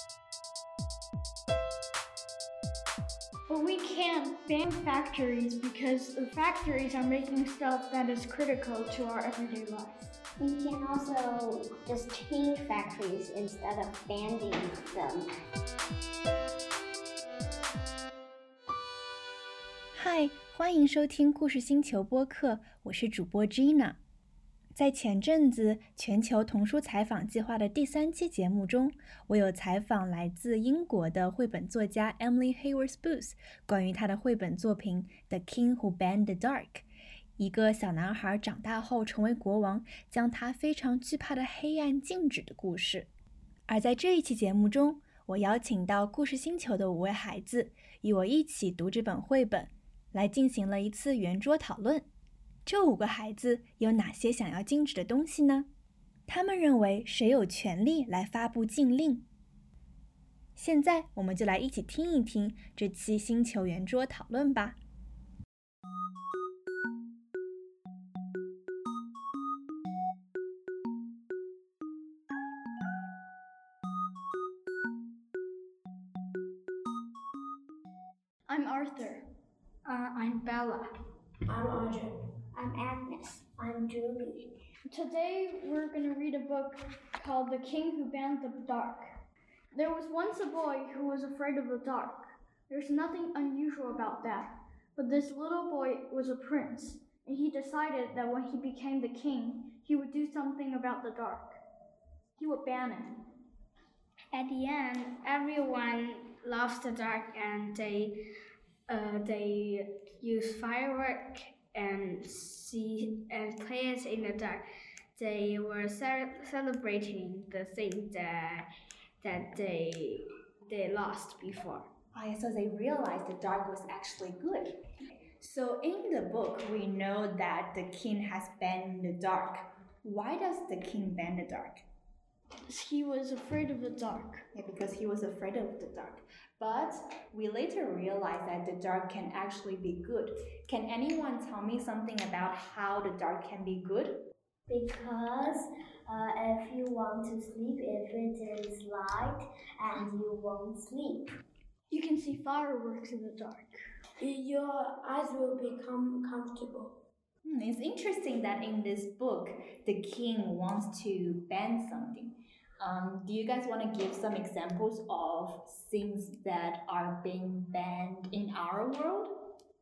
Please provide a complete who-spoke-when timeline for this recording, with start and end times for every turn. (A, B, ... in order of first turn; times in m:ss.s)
0:03.5-0:10.1 A
0:10.4-0:15.3 B
0:20.0-0:24.0 C
0:24.7-0:36.8 C
0:37.4-0:43.1 C
0:43.7-0:52.1 C
0:52.7-0:55.7 C
0:56.3-0:59.3 C
1:00.6-1:04.8 C
1:18.5-1:19.2 A
1:19.8-1:20.9 D
1:21.5-1:22.1 E
1:22.6-1:24.4 B
1:24.9-1:29.1 A
1:29.7-1:41.6 A
1:42.4-1:43.2 A
1:44.3-1:48.2 D
1:48.9-1:54.6 D
1:55.2-1:58.7 D
1:59.2-2:01.9 D
2:02.1-2:04.8 C
2:05.4-2:11.8 C
2:12.7-2:14.4 A
2:14.5-2:24.3 C
2:24.7-2:31.2 B
2:31.9-2:33.8 A
2:34.2-2:37.0 E
2:37.4-2:49.3 C